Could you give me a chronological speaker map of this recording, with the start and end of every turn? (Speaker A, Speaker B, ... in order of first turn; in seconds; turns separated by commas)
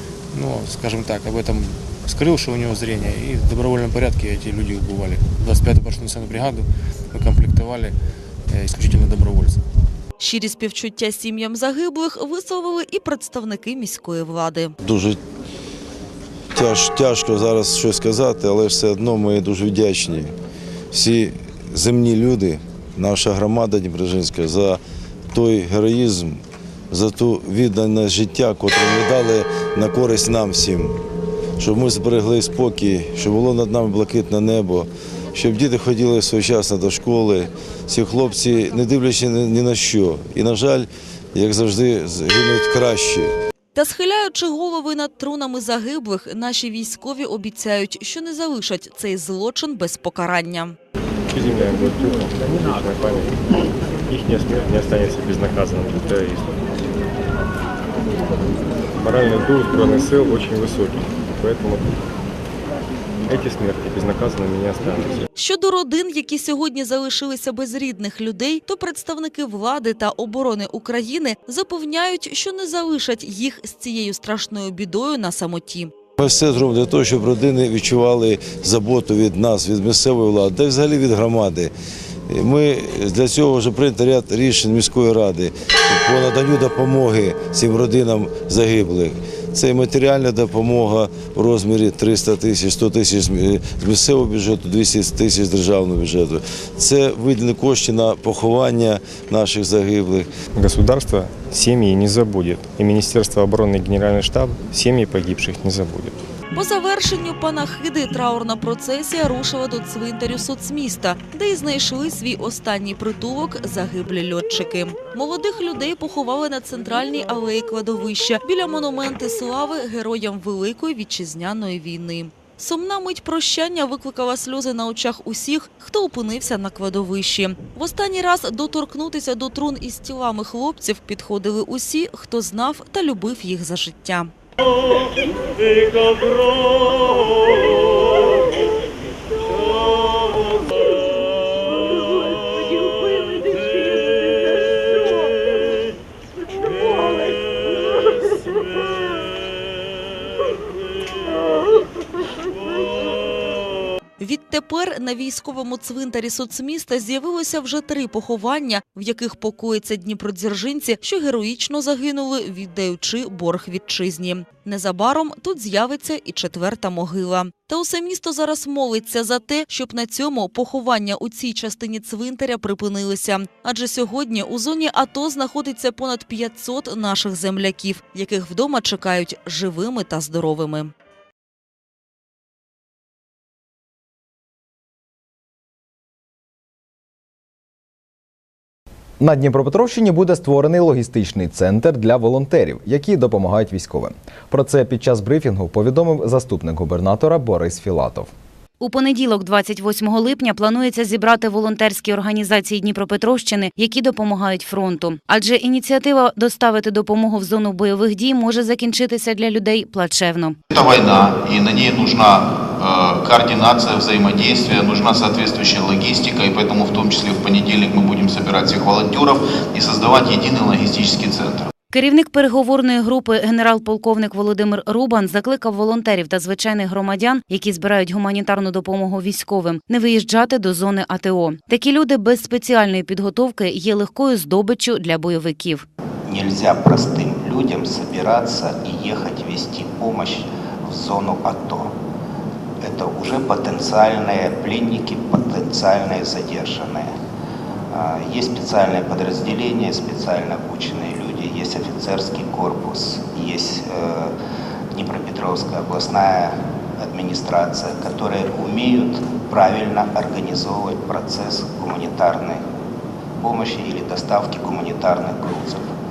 Speaker A: 0.3-7.9, Speaker A: 8.5-9.6, Speaker B: 10.2-14.8, Speaker C: 14.8-15.2, Speaker C: 16.5-20.3, Speaker C: 20.9-24.8, Speaker C: 25.3-31.0, Speaker C: 31.6-43.3, Speaker B: 43.7-50.8, Speaker D: 51.3-53.4, Speaker D: 54.1-56.6, Speaker D: 59.0-61.9, Speaker D: 63.3-65.3, Speaker B: 65.4-75.9, Speaker C: 76.2-81.7, Speaker C: 82.3-100.3, Speaker D: 100.5-106.2, Speaker B: 106.5-134.3, Speaker B: 154.2-180.9, Speaker E: 189.2-198.3, Speaker F: 198.8-210.6, Speaker G: 210.7-221.6, Speaker F: 221.9-235.8, Speaker H: 236.3-241.9, Speaker H: 242.8-247.1, Speaker H: 247.9-254.3, Speaker H: 254.9-262.6, Speaker H: 263.4-265.9